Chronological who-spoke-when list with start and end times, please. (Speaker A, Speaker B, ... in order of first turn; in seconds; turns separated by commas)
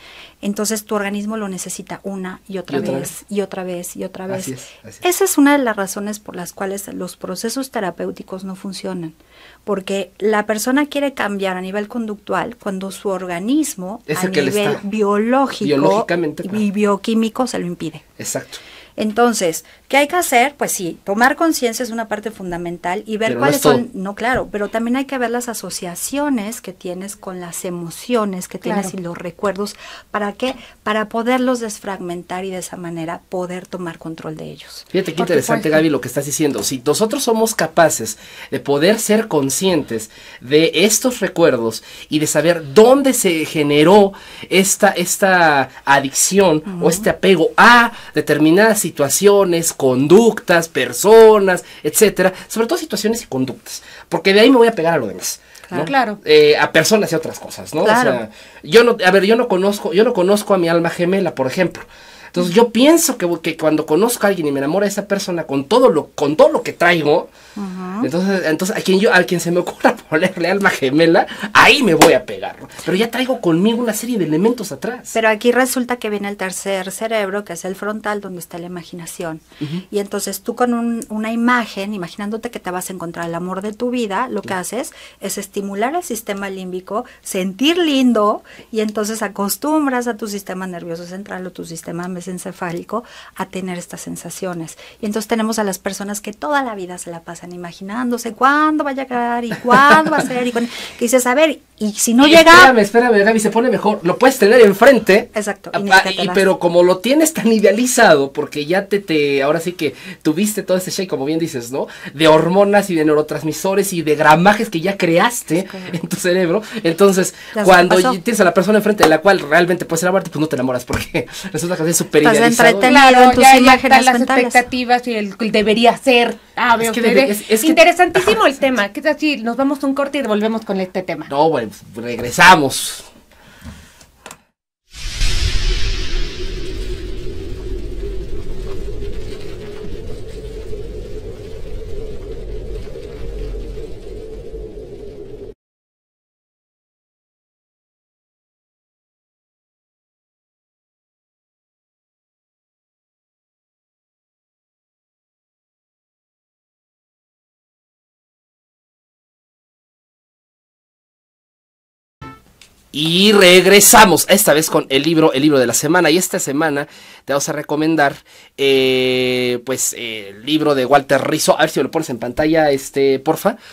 Speaker A: 0.4-18.1, Speaker B: 2.7-3.1, Speaker B: 4.3-5.0, Speaker B: 14.1-14.8, Speaker B: 15.6-16.6, Speaker B: 18.2-18.6, Speaker A: 19.0-34.9, Speaker B: 23.3-23.8, Speaker C: 28.6-28.9, Speaker B: 34.9-67.3, Speaker C: 35.2-35.8, Speaker A: 46.7-47.0, Speaker C: 55.9-56.2, Speaker A: 57.8-58.2, Speaker A: 67.6-68.1, Speaker B: 68.0-75.1, Speaker A: 75.1-102.7, Speaker B: 102.2-123.0, Speaker A: 105.3-106.5, Speaker A: 115.7-115.9, Speaker A: 117.5-118.2, Speaker A: 122.2-124.6, Speaker C: 122.8-131.3, Speaker B: 126.8-128.4, Speaker B: 131.3-133.1, Speaker B: 162.9-173.6